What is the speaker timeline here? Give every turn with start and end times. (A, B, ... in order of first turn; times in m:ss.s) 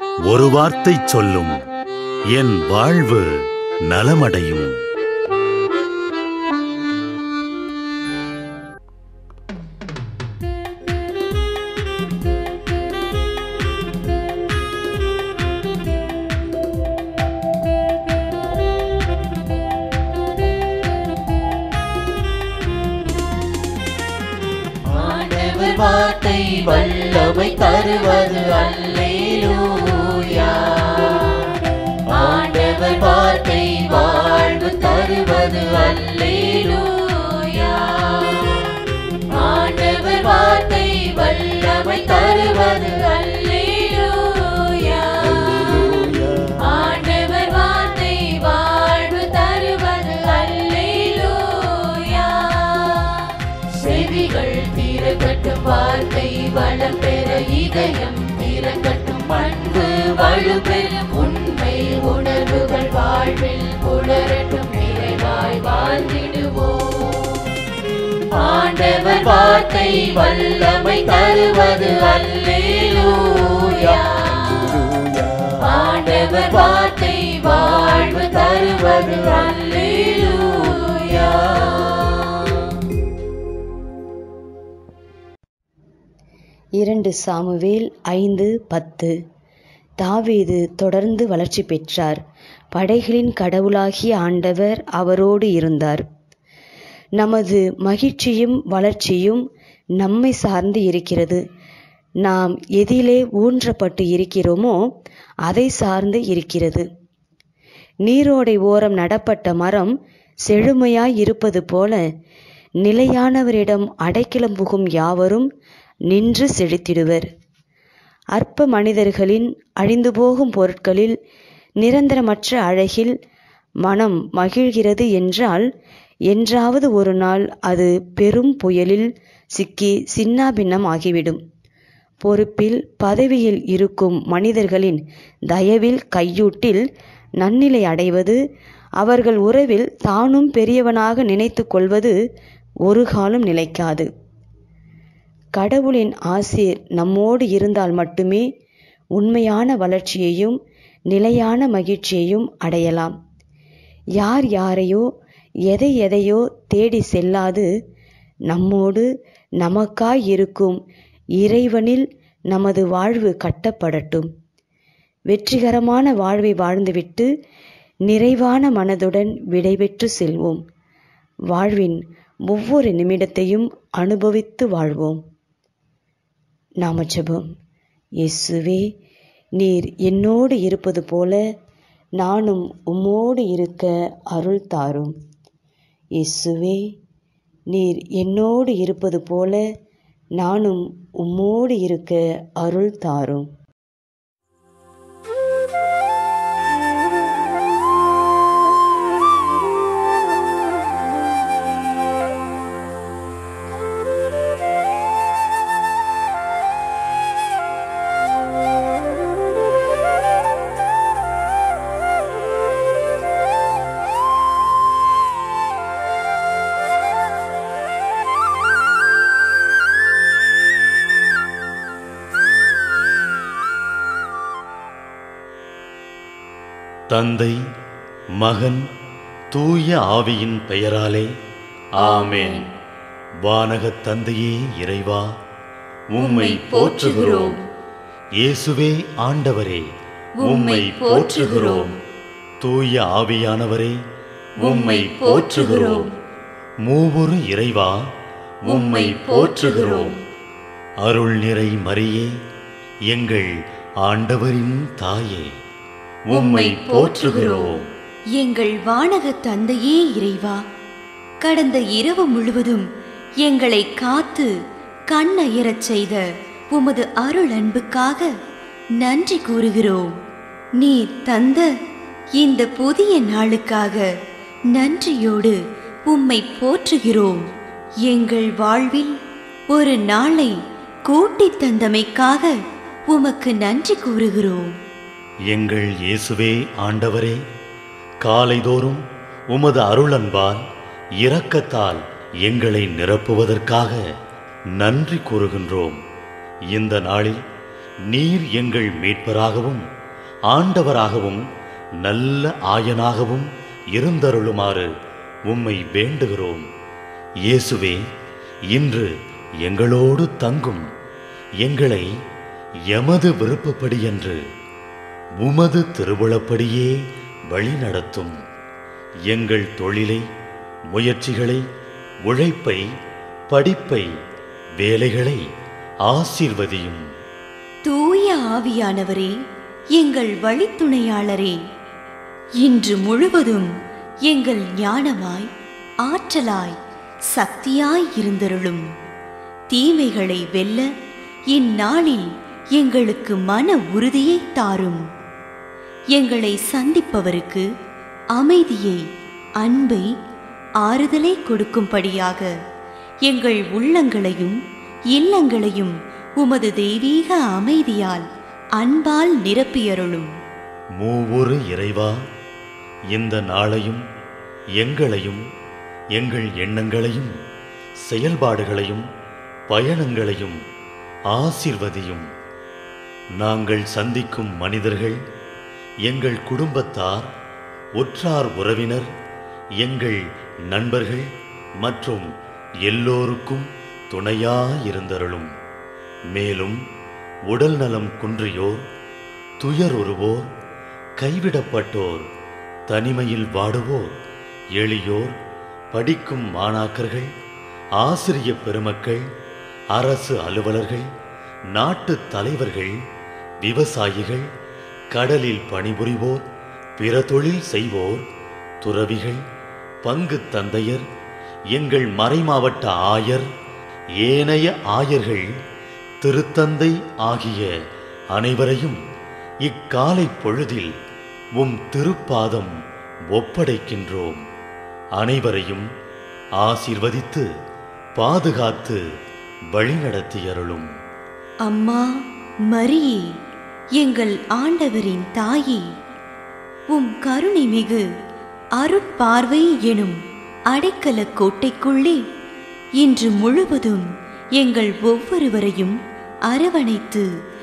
0:00.2-0:01.6 A
0:02.3-0:04.7 A
0:24.9-0:31.5 B
0:32.1-0:38.8 B
0:39.3-1:07.4 B
1:08.4-1:22.4 B
1:26.8-1:29.1 C
1:30.0-1:32.2 C
1:32.7-1:36.0 C
1:37.2-1:39.4 C
1:40.0-1:41.4 C
1:42.2-1:44.8 C
1:45.5-1:46.8 C
1:48.0-1:49.9 C
1:50.4-1:52.0 C
1:52.8-1:55.5 C
1:56.1-1:57.2 C
1:58.3-2:01.1 C
2:01.8-2:03.1 C
2:03.8-2:05.6 C
2:06.3-2:11.4 C
2:12.2-2:16.8 C
2:17.4-2:18.4 C
2:19.0-2:22.1 C
2:22.9-2:24.1 C
2:25.6-2:28.4 C
2:29.2-2:30.6 C
2:31.1-2:33.1 C
2:34.2-2:35.0 C
2:35.7-2:37.7 C
2:38.5-2:39.1 C
2:39.6-2:40.8 C
2:41.4-2:44.3 C
2:45.3-2:47.3 C
2:48.1-2:50.6 C
2:51.5-2:55.2 C
2:56.8-2:57.5 C
2:58.2-2:58.8 C
2:59.6-3:01.4 C
3:02.2-3:05.1 C
3:06.2-3:06.9 C
3:07.7-3:09.6 C
3:10.4-3:13.5 C
3:47.1-3:47.6 A
3:48.4-3:48.8 A
3:49.5-3:51.3 A
3:52.0-3:52.6 A
3:52.0-3:52.6 D
3:53.4-3:55.2 A
3:56.1-3:57.6 A
3:56.2-3:57.6 D
3:58.4-3:59.8 A
4:00.4-4:01.9 D
4:00.4-4:01.9 A
4:02.6-4:03.9 A
4:04.6-4:06.1 D
4:04.6-4:06.0 A
4:06.8-4:08.0 A
4:08.6-4:10.1 A
4:08.7-4:10.2 D
4:11.0-4:12.3 A
4:13.1-4:13.5 A
4:14.0-4:15.5 A
4:16.3-4:17.9 A
4:16.3-4:17.8 D
4:18.4-4:20.6 D
4:21.4-4:22.8 D
4:23.4-4:24.5 D
4:25.1-4:28.3 D
4:29.0-4:30.1 D
4:30.8-4:31.7 D
4:32.4-4:34.1 D
4:34.7-4:37.4 D
4:38.0-4:39.1 D
4:39.7-4:40.5 D
4:41.1-4:42.5 D
4:43.1-4:44.7 D
4:45.5-4:47.4 A
4:48.2-4:50.6 A
4:51.2-4:54.0 A
4:54.8-4:56.0 A
4:56.7-4:57.4 A
4:58.1-4:59.8 A
5:00.5-5:01.4 A
5:02.0-5:04.9 A
5:05.5-5:06.6 A
5:07.4-5:08.0 A
5:08.7-5:09.1 A
5:09.6-5:10.8 A
5:11.6-5:12.1 A
5:12.9-5:14.4 A
5:15.4-5:17.0 A
5:17.5-5:18.3 A
5:19.3-5:20.2 A
5:20.9-5:21.6 A
5:22.2-5:22.8 A
5:23.5-5:24.1 A
5:24.8-5:25.4 A
5:26.1-5:27.0 A
5:27.8-5:29.3 D
5:30.0-5:31.6 D
5:32.6-5:33.7 D
5:34.3-5:35.5 D
5:36.0-5:36.8 D
5:37.3-5:38.8 D
5:39.7-5:40.8 D
5:41.5-5:45.0 D
5:46.1-5:47.6 D
5:48.4-5:49.0 D
5:49.6-5:50.0 D
5:50.8-5:52.5 D
5:53.2-5:54.6 D
5:55.1-5:58.2 D
5:58.8-6:00.3 D
6:01.0-6:02.1 A
6:03.1-6:04.0 A
6:04.8-6:05.4 A
6:06.1-6:07.3 A
6:08.0-6:09.0 A
6:09.7-6:10.6 A
6:11.3-6:12.2 A
6:13.4-6:15.2 A
6:16.0-6:17.3 A
6:18.0-6:19.1 A
6:19.8-6:21.3 A
6:21.8-6:22.3 A
6:22.8-6:25.5 A
6:26.3-6:26.8 A
6:27.5-6:28.8 A
6:29.6-6:30.5 A
6:31.2-6:32.2 A
6:32.9-6:34.1 A
6:34.7-6:35.3 A
6:35.9-6:37.3 A
6:38.0-6:39.2 A
6:39.9-6:41.0 A
6:41.7-6:42.9 A
6:43.6-6:44.4 A
6:45.1-6:46.4 A
6:47.0-6:48.2 A
6:48.8-6:49.4 A
6:50.0-6:51.0 A
6:51.7-6:53.4 A
6:54.2-6:55.4 A
6:56.2-6:57.7 A
6:58.3-6:59.0 A
6:59.6-7:00.9 A
7:01.6-7:02.7 A
7:03.3-7:04.4 A
7:05.2-7:05.8 A
7:06.6-7:07.4 A
7:08.2-7:09.0 A
7:09.7-7:10.9 A
7:11.6-7:12.0 D
7:12.7-7:13.2 D
7:14.0-7:15.8 D
7:16.9-7:18.0 D
7:18.8-7:20.2 D
7:20.7-7:22.2 D
7:23.0-7:24.0 D
7:24.6-7:26.0 D
7:26.5-7:27.2 D